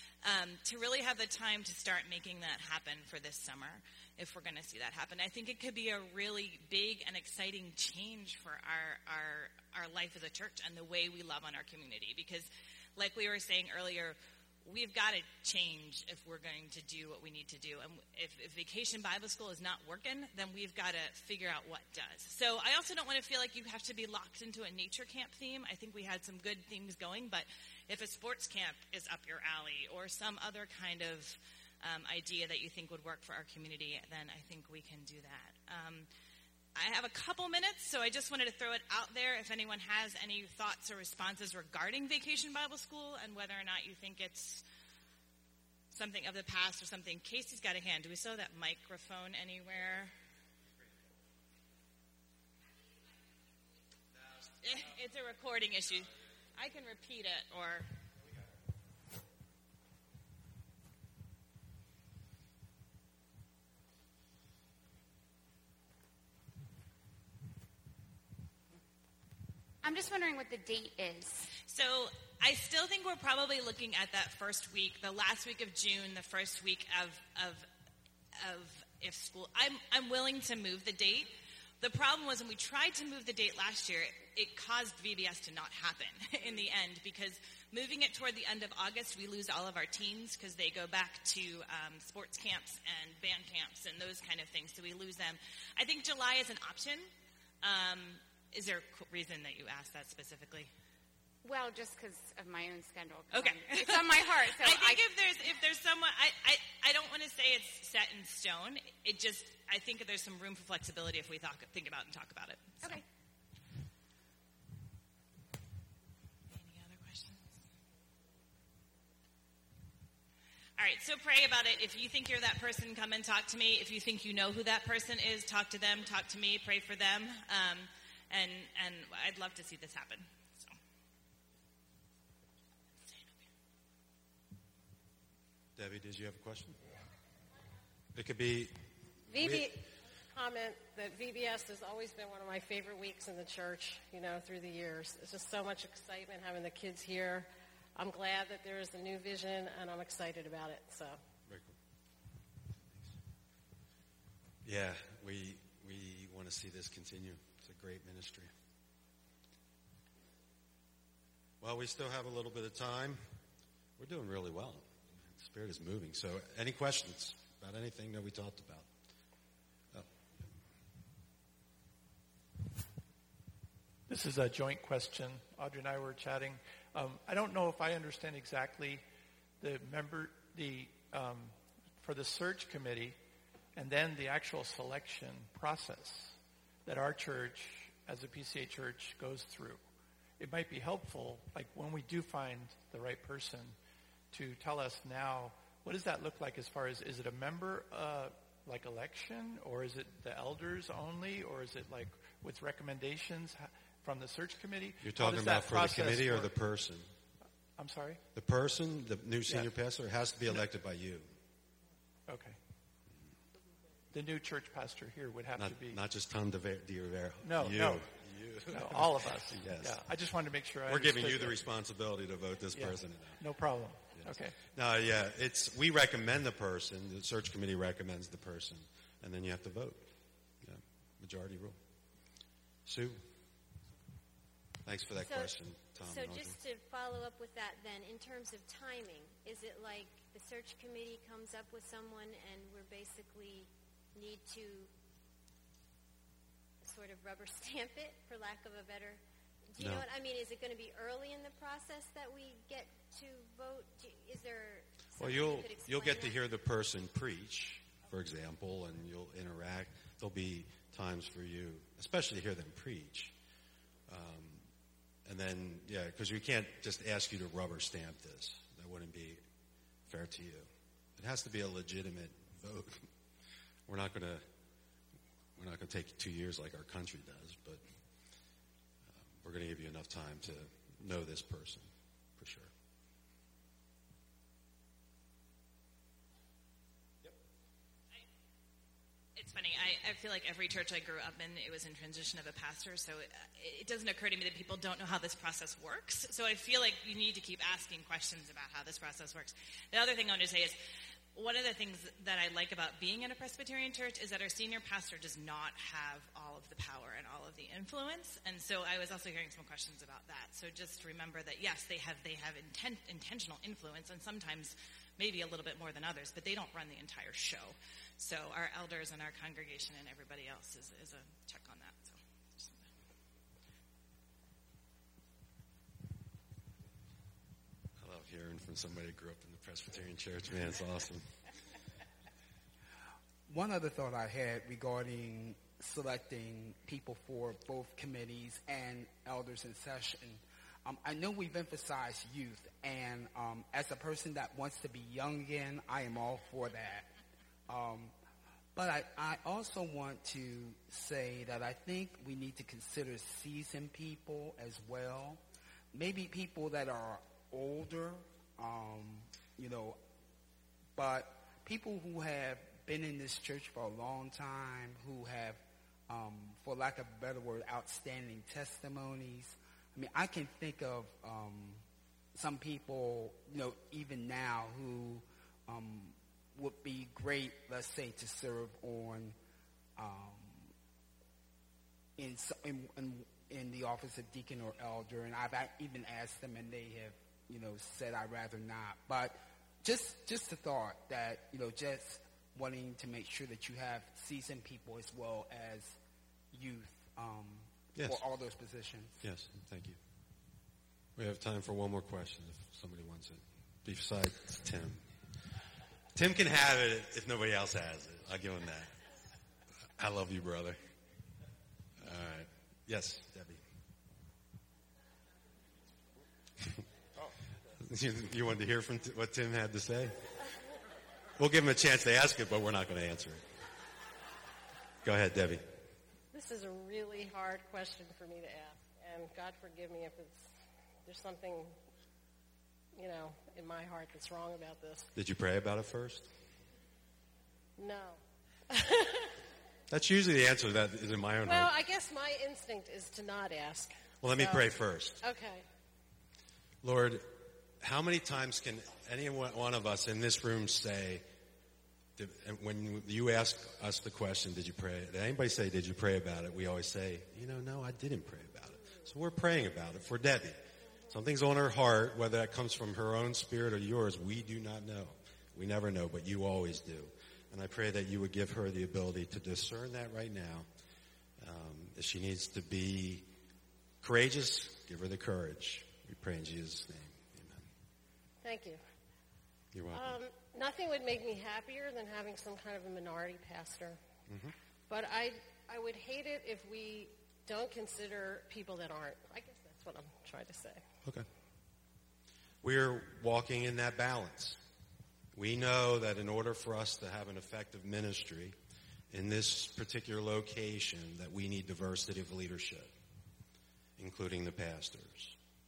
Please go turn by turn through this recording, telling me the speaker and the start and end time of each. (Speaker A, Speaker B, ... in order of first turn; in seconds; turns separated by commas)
Speaker A: 0.2-36.1, Speaker A: 36.8-44.6, Speaker A: 45.9-50.1, Speaker A: 54.6-57.9, Speaker B: 69.8-71.5, Speaker A: 71.7-77.7, Speaker A: 78.4-97.1, Speaker A: 97.6-100.7, Speaker B: 101.4-105.0, Speaker A: 103.3-113.0, Speaker A: 116.5-117.5, Speaker A: 120.8-130.8, Speaker C: 135.8-136.8, Speaker C: 138.2-138.8, Speaker D: 139.3-151.2, Speaker C: 139.3-139.7, Speaker C: 151.5-151.8, Speaker C: 154.6-158.5, Speaker C: 161.6-163.2, Speaker C: 164.0-168.9, Speaker E: 174.1-179.0, Speaker E: 179.6-183.2, Speaker E: 183.8-189.8, Speaker E: 190.4-193.8, Speaker E: 194.3-206.5, Speaker C: 205.0-207.1, Speaker E: 207.8-208.2, Speaker C: 208.3-211.3, Speaker E: 212.3-212.6, Speaker E: 214.1-216.0, Speaker C: 215.6-220.0, Speaker E: 217.4-218.0, Speaker E: 218.7-221.6, Speaker C: 220.9-223.4, Speaker E: 222.7-224.6, Speaker C: 224.1-231.8, Speaker C: 232.9-233.2, Speaker C: 234.9-236.6, Speaker F: 235.2-244.9, Speaker F: 246.8-256.4, Speaker C: 249.8-250.1, Speaker C: 255.2-263.3, Speaker C: 264.1-264.6, Speaker C: 265.3-269.4, Speaker C: 270.1-273.1, Speaker C: 273.9-274.4, Speaker C: 275.6-277.8, Speaker C: 279.2-282.7, Speaker A: 289.4-300.8, Speaker A: 301.4-322.8, Speaker C: 328.0-331.3, Speaker G: 333.5-347.1, Speaker G: 347.7-348.1, Speaker G: 348.8-355.4, Speaker G: 355.9-360.0, Speaker G: 361.0-371.8, Speaker G: 372.4-379.4, Speaker G: 380.0-380.7, Speaker G: 382.2-396.0, Speaker G: 396.5-399.2, Speaker C: 398.0-398.2, Speaker C: 399.2-400.0, Speaker C: 401.2-405.1, Speaker C: 406.1-408.9, Speaker C: 410.0-410.8, Speaker C: 412.0-413.6, Speaker C: 417.7-420.4, Speaker C: 421.4-423.5, Speaker C: 425.0-425.7, Speaker D: 426.3-430.5, Speaker D: 431.1-431.8, Speaker D: 433.0-435.1, Speaker C: 435.1-436.3, Speaker D: 437.8-438.2, Speaker D: 438.7-439.4, Speaker C: 439.9-441.7, Speaker D: 441.4-445.6, Speaker C: 444.2-445.2, Speaker C: 446.8-451.2, Speaker C: 452.2-470.7, Speaker C: 471.4-473.3, Speaker C: 474.0-477.7, Speaker D: 478.4-478.8, Speaker C: 479.7-480.2, Speaker D: 479.9-484.0, Speaker C: 484.3-484.5, Speaker D: 484.9-490.8, Speaker C: 492.6-494.6, Speaker C: 495.4-498.6, Speaker C: 499.1-502.9, Speaker C: 504.0-505.4